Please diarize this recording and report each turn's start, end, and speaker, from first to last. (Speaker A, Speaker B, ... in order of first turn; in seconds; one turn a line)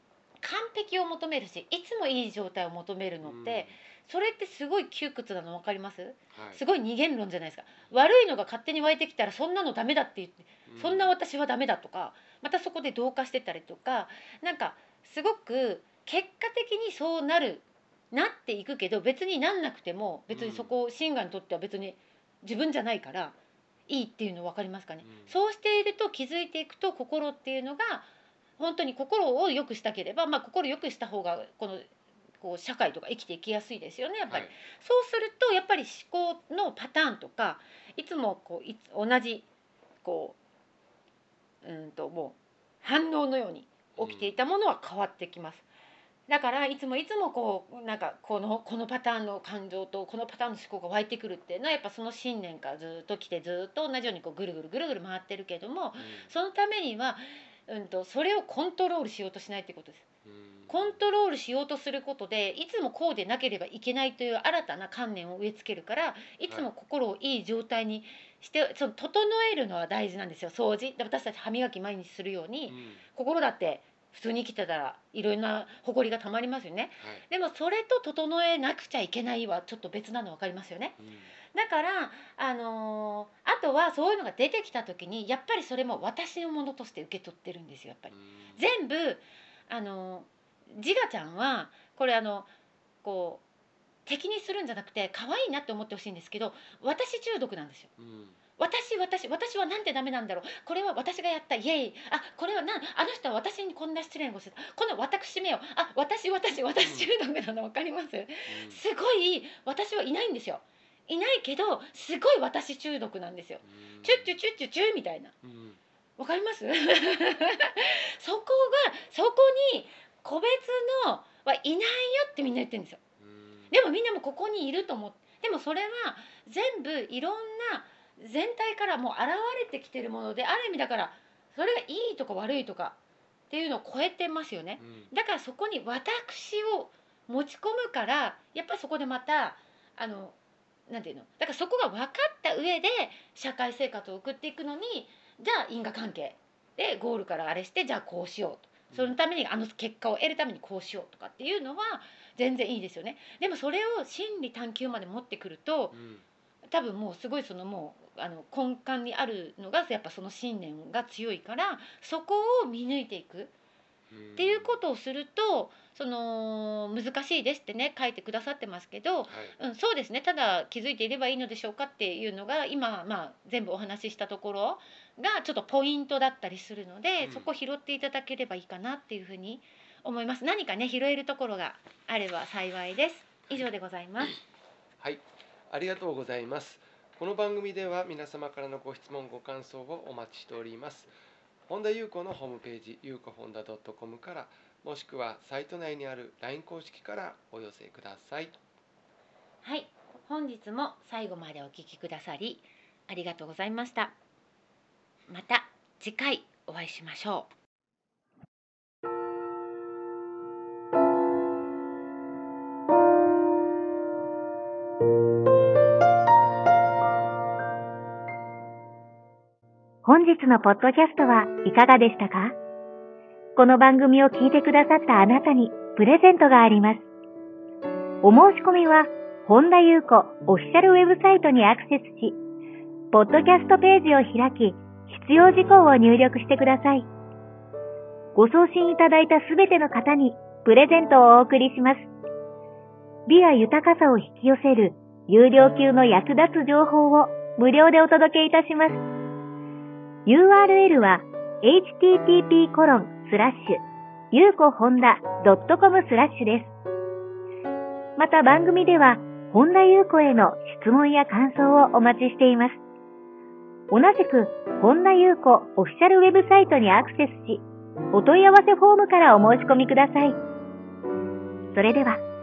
Speaker A: 0.4-23.3
Speaker B: 3.2-3.7
Speaker B: 6.3-6.6
Speaker B: 10.7-11.1
Speaker B: 20.3-20.7
Speaker A: 23.9-39.5
Speaker B: 25.0-25.4
Speaker A: 40.0-40.4
Speaker A: 41.6-45.6
Speaker B: 44.0-44.3
Speaker A: 46.3-60.0
Speaker B: 56.0-56.3
Speaker B: 60.2-61.0
Speaker A: 60.7-81.0
Speaker B: 72.7-73.0
Speaker B: 77.0-77.2
Speaker B: 81.0-81.3
Speaker A: 81.5-92.5
Speaker B: 88.1-88.6
Speaker A: 93.0-93.4
Speaker A: 94.0-97.9
Speaker B: 98.0-98.4
Speaker A: 98.6-115.3
Speaker B: 106.8-107.1
Speaker B: 108.5-108.8
Speaker B: 113.6-114.3
Speaker B: 115.4-115.8
Speaker A: 116.2-123.0
Speaker B: 123.2-123.7
Speaker A: 123.7-133.0
Speaker A: 133.5-140.3
Speaker B: 134.8-135.1
Speaker A: 140.9-155.9
Speaker B: 155.9-156.2
Speaker A: 156.7-163.5
Speaker B: 164.1-164.8
Speaker A: 164.4-184.4
Speaker B: 169.3-169.6
Speaker B: 177.2-177.5
Speaker B: 185.0-191.1
Speaker B: 191.7-198.6
Speaker A: 199.6-204.1
Speaker A: 205.3-207.5
Speaker C: 220.0-222.6
Speaker C: 223.6-227.1
Speaker C: 228.2-232.4
Speaker C: 233.1-237.1
Speaker C: 238.3-242.1
Speaker C: 243.3-249.0
Speaker C: 250.2-253.8
Speaker C: 254.3-256.7
Speaker C: 258.2-262.8
Speaker C: 263.9-270.4
Speaker C: 271.7-272.2